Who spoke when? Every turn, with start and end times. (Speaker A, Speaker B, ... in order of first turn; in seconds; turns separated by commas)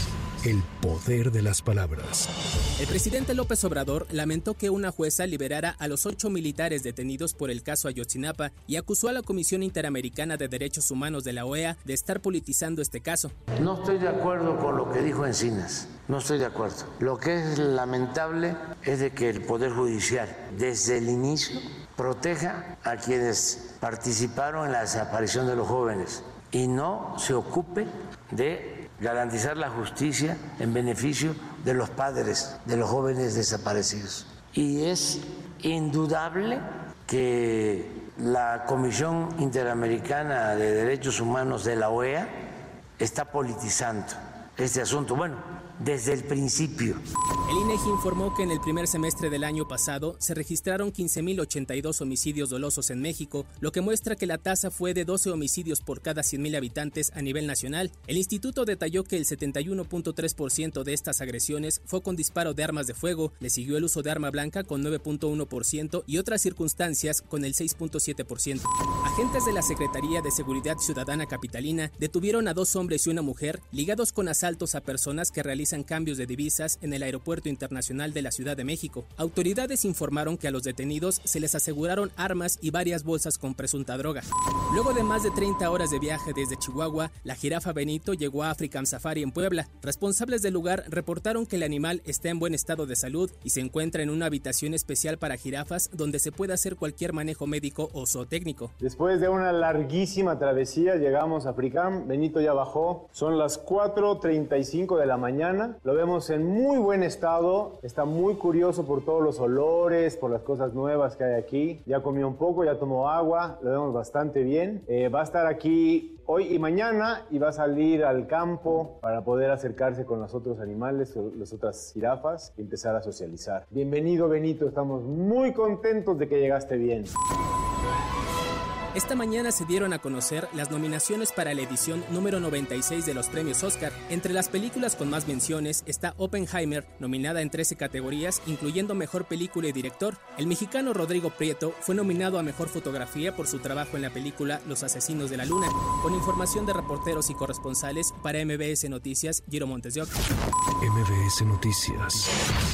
Speaker A: 0.4-2.3, Speaker B: 2.8-13.3, Speaker C: 13.6-42.3, Speaker C: 43.0-47.0, Speaker B: 47.5-98.7, Speaker D: 98.8-127.1, Speaker B: 128.9-150.1, Speaker A: 150.8-152.3